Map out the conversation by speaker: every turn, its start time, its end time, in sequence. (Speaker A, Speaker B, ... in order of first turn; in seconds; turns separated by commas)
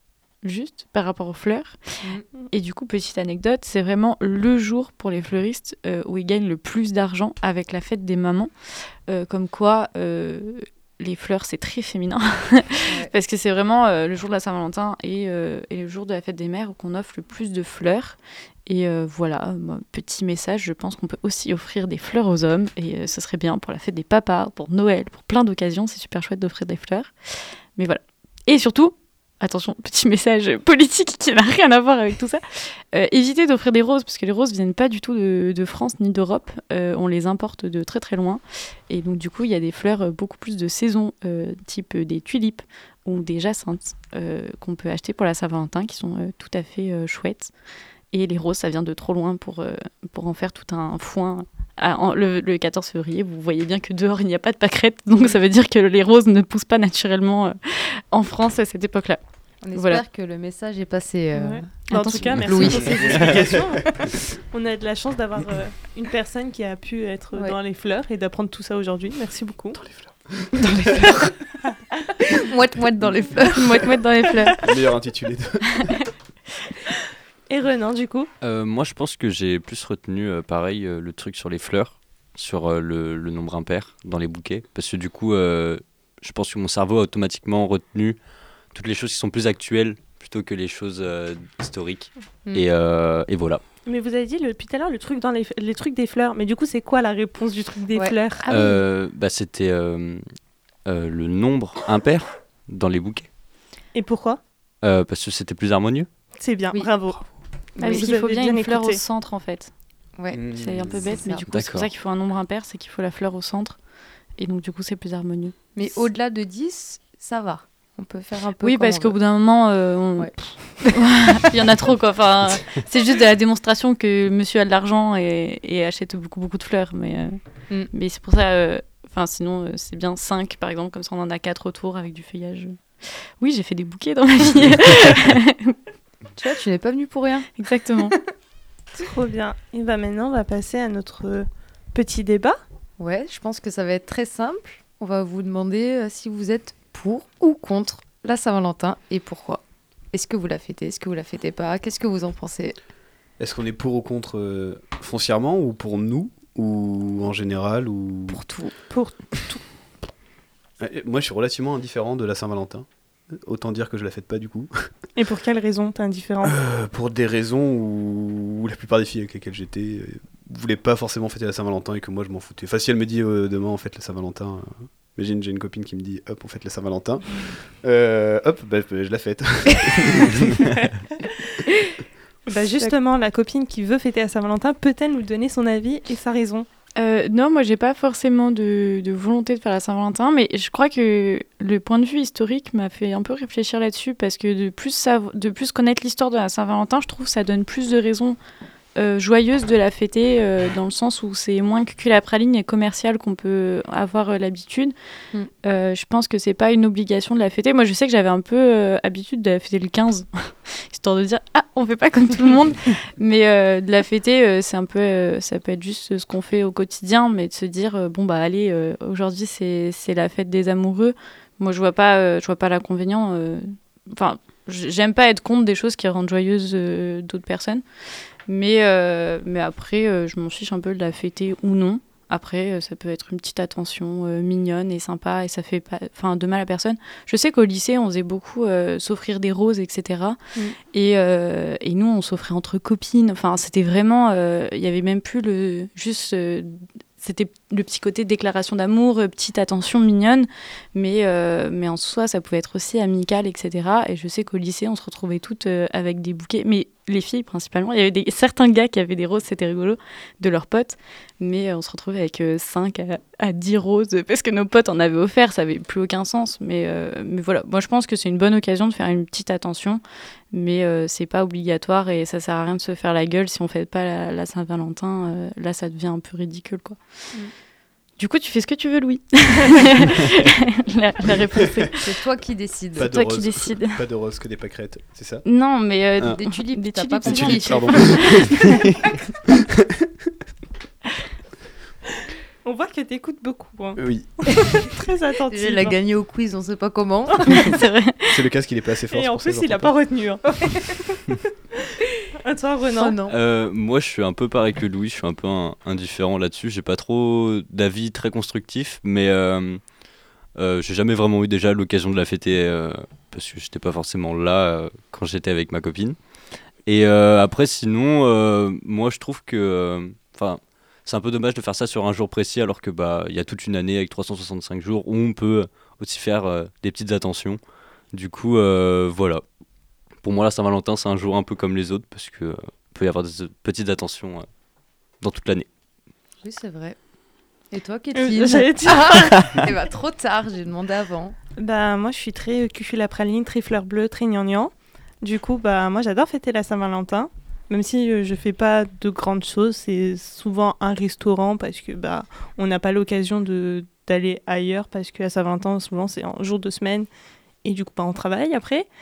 Speaker A: 0.4-47.5, Speaker A: 48.1-59.2, Speaker B: 59.6-63.4, Speaker A: 59.7-60.0, Speaker C: 61.3-69.8, Speaker A: 61.9-62.5, Speaker D: 62.9-63.7, Speaker D: 69.8-70.8, Speaker B: 70.8-71.3, Speaker A: 70.9-71.1, Speaker B: 72.2-73.9, Speaker A: 73.5-74.6, Speaker D: 74.6-76.0, Speaker C: 77.5-78.3, Speaker E: 78.4-88.2, Speaker E: 88.7-93.6, Speaker C: 93.9-98.5, Speaker A: 98.4-98.8, Speaker E: 98.5-100.2, Speaker E: 100.8-103.3, Speaker C: 103.9-104.4, Speaker E: 104.8-106.1, Speaker C: 106.4-107.3, Speaker A: 107.8-109.7, Speaker C: 107.8-109.0, Speaker B: 110.2-111.4, Speaker D: 110.3-111.2, Speaker A: 110.5-113.8, Speaker E: 111.5-111.9, Speaker A: 114.4-115.6, Speaker B: 115.8-119.2, Speaker A: 118.6-135.8, Speaker B: 120.2-121.2, Speaker B: 136.4-137.5, Speaker A: 137.6-138.2, Speaker C: 138.9-142.6, Speaker B: 143.0-152.8, Speaker D: 153.4-158.4, Speaker B: 158.3-158.8, Speaker C: 158.9-159.6, Speaker D: 160.8-164.9, Speaker C: 165.2-166.5, Speaker D: 166.4-180.9, Speaker C: 182.5-186.7, Speaker A: 187.0-198.4, Speaker A: 199.0-204.9, Speaker A: 205.6-227.8, Speaker A: 228.5-240.4, Speaker A: 240.9-270.0, Speaker A: 270.5-277.0, Speaker A: 278.2-282.2, Speaker B: 282.0-283.1, Speaker D: 283.0-285.4, Speaker A: 283.0-284.0, Speaker A: 285.4-288.8, Speaker B: 286.3-288.5, Speaker D: 287.2-289.1, Speaker C: 292.6-296.0, Speaker D: 294.0-294.8, Speaker B: 295.5-297.8, Speaker C: 297.3-297.6, Speaker A: 297.5-298.4, Speaker D: 298.3-299.9, Speaker C: 299.1-303.2, Speaker B: 303.0-303.4, Speaker E: 303.3-309.8, Speaker E: 310.6-316.2, Speaker E: 316.9-327.6, Speaker E: 328.1-329.4, Speaker E: 330.2-334.5, Speaker E: 335.2-335.7, Speaker B: 336.4-337.0, Speaker B: 337.7-341.4, Speaker C: 338.1-339.7, Speaker C: 341.6-357.1, Speaker C: 357.6-358.9